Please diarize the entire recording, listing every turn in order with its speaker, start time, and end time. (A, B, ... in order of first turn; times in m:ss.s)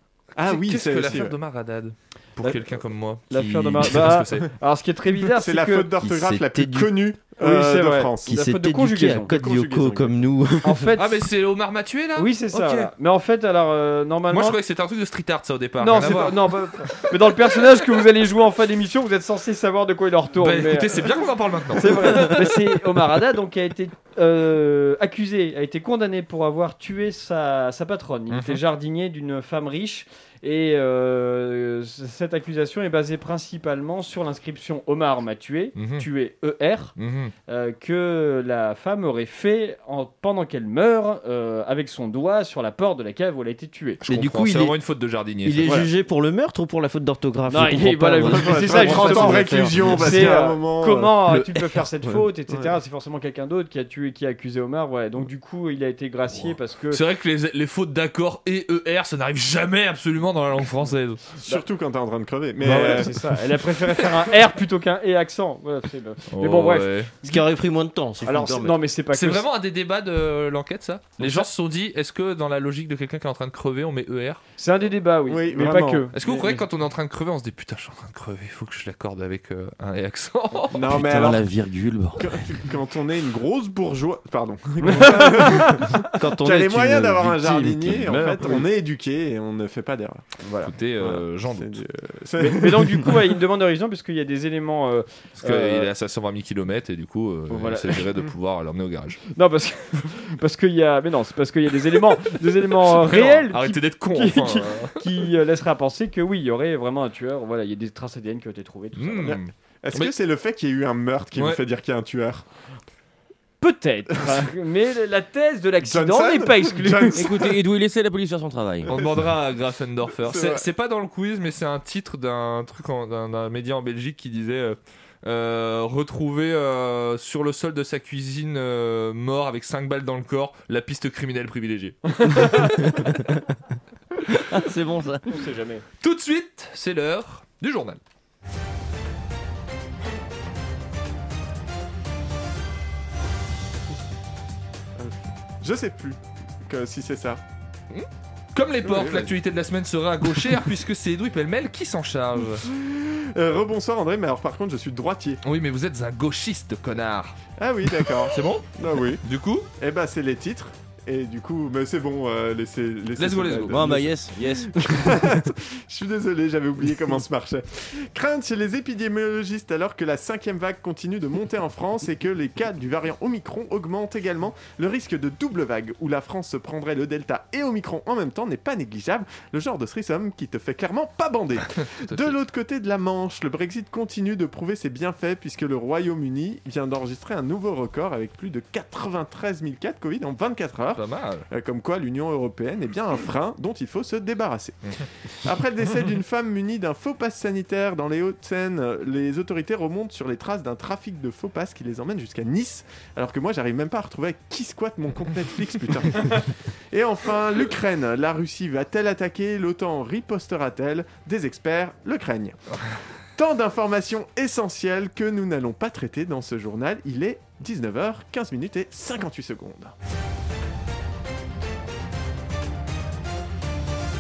0:00.4-0:01.3 A
0:00.4-0:04.5 B
0:03.3-0:05.9 C
0:05.2-0:08.4 A
0:06.0-0:06.9 D
0:07.4-0:09.4 C
0:08.3-0:10.9 D
0:09.2-0:10.2 A
0:10.6-0:11.2 C
0:11.0-0:12.9 B
0:12.2-0:14.6 C
0:14.3-0:17.1 B
0:15.8-0:21.1 C
0:20.4-0:22.6 B
0:21.7-0:36.9 C
0:28.3-0:28.6 B
0:35.7-0:36.1 B
0:37.0-0:37.3 B
0:37.5-0:44.0 C
0:44.0-0:45.8 B
0:44.0-0:44.8 D
0:45.4-0:50.2 D
0:47.5-0:57.0 C
0:48.2-0:51.4 A
0:56.4-1:01.2 B
1:01.4-1:03.2 A
1:02.6-1:07.4 C
1:06.3-1:07.1 B
1:07.2-1:08.8 D
1:08.2-1:09.4 C
1:09.1-1:14.4 B
1:14.6-1:16.6 C
1:15.3-1:16.1 A
1:16.1-1:21.0 B
1:20.7-1:21.4 A
1:20.9-1:22.5 E
1:22.2-1:30.3 A
1:24.8-1:25.9 C
1:26.2-1:28.5 D
1:30.4-1:30.7 C
1:30.6-1:31.8 B
1:31.0-1:33.2 A
1:32.4-1:35.9 C
1:35.4-1:39.2 B
1:37.5-1:38.0 C
1:39.3-1:49.3 C
1:42.7-1:45.0 B
1:48.9-1:50.1 B
1:49.2-1:52.4 A
1:51.3-1:51.6 B
1:53.6-1:57.3 C
1:55.8-1:57.5 A
1:57.1-1:58.9 E
1:58.8-2:13.1 B
1:58.9-1:59.3 A
2:00.2-2:00.6 A
2:12.2-2:12.8 C
2:14.6-2:15.2 E
2:15.2-2:15.8 C
2:16.0-2:18.0 B
2:25.0-2:27.4 A
2:27.9-2:32.6 B
2:28.8-2:29.3 A
2:32.6-2:35.4 A
2:35.4-2:37.4 B
2:37.6-2:39.2 A
2:38.0-2:39.7 B
2:39.8-2:44.1 A
2:43.2-2:43.9 B
2:43.7-2:45.1 E
2:44.8-3:32.6 A
3:01.8-3:02.4 B
3:10.9-3:11.4 B
3:33.4-3:39.9 A